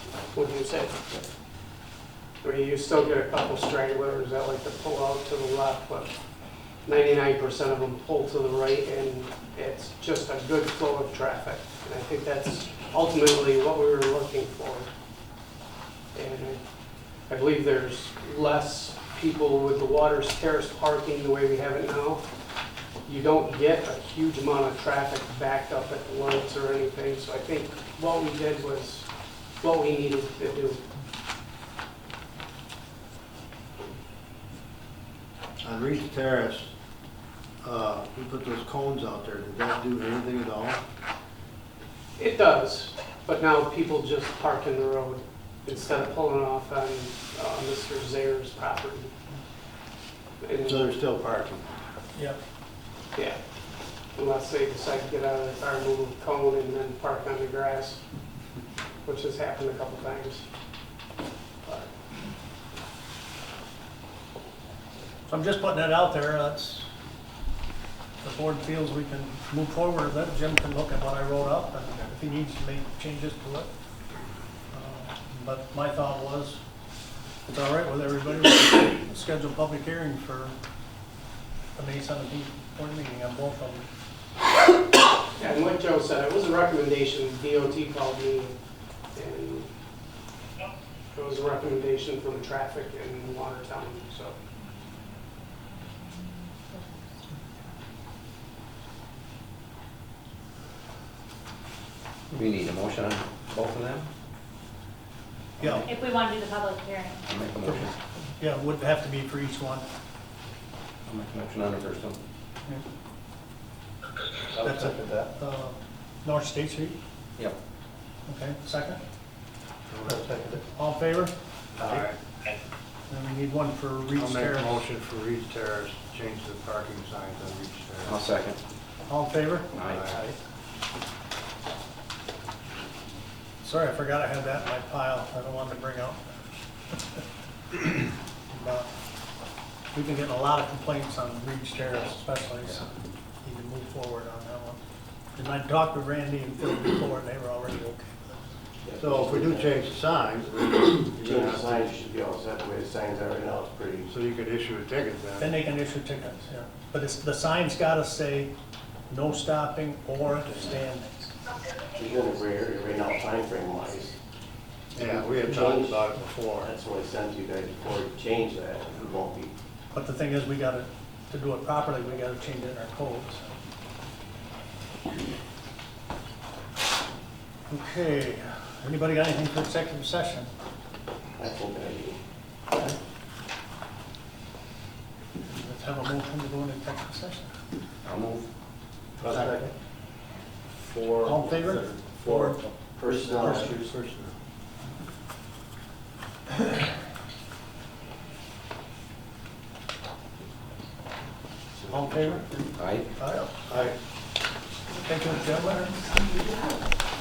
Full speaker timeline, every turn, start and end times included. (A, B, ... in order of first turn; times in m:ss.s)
0:00.3-0:00.9 A
0:02.4-0:06.1 A
0:06.8-0:14.9 A
0:16.1-0:16.6 A
0:17.3-0:22.2 A
0:23.0-0:29.1 A
0:29.6-0:30.8 A
0:35.6-0:36.7 B
0:37.6-0:40.8 B
0:42.2-0:49.1 A
0:50.4-0:50.9 A
0:50.6-0:51.6 B
0:54.1-0:58.0 A
0:59.0-1:00.4 A
1:01.6-1:01.9 A
1:05.3-1:06.9 C
1:08.2-1:13.7 C
1:14.7-1:16.6 C
1:17.4-1:20.6 C
1:21.8-1:23.9 C
1:25.4-1:28.6 A
1:29.1-1:29.7 A
1:31.1-1:34.3 A
1:36.6-1:37.4 D
1:42.3-1:44.1 E
1:45.6-1:45.9 E
1:45.6-1:45.8 C
1:45.8-1:47.2 D
1:47.2-1:47.9 E
1:47.6-1:49.8 C
1:51.0-1:52.2 E
1:54.6-1:57.0 C
1:54.6-1:55.1 B
1:58.3-1:59.0 C
1:59.9-2:00.6 B
2:00.6-2:02.1 C
2:01.8-2:02.2 B
2:03.1-2:04.8 C
2:04.2-2:08.2 B
2:08.0-2:08.6 E
2:09.1-2:09.7 C
2:09.7-2:10.0 E
2:09.9-2:10.4 B
2:13.6-2:16.3 C
2:18.5-2:18.9 C
2:19.9-2:22.9 C
2:23.4-2:24.8 C
2:25.4-2:28.3 C
2:28.8-2:29.7 F
2:29.0-2:31.9 B
2:30.8-2:34.1 F
2:34.1-2:35.5 B
2:35.4-2:38.5 C
2:39.1-2:41.3 C
2:41.9-2:44.2 F
2:45.0-2:46.7 B
2:45.0-2:49.5 F
2:49.9-2:53.6 C
2:57.7-3:00.5 C
3:01.4-3:02.2 F
3:05.4-3:07.5 C
3:08.0-3:08.5 E
3:09.2-3:09.7 F
3:09.2-3:09.6 B
3:10.7-3:14.3 B
3:11.2-3:12.6 C
3:12.9-3:13.9 F
3:13.4-3:13.7 C
3:21.8-3:22.4 F
3:21.9-3:22.5 C
3:22.8-3:23.1 E
3:23.2-3:23.7 C
3:23.7-3:24.0 B
3:25.0-3:26.1 C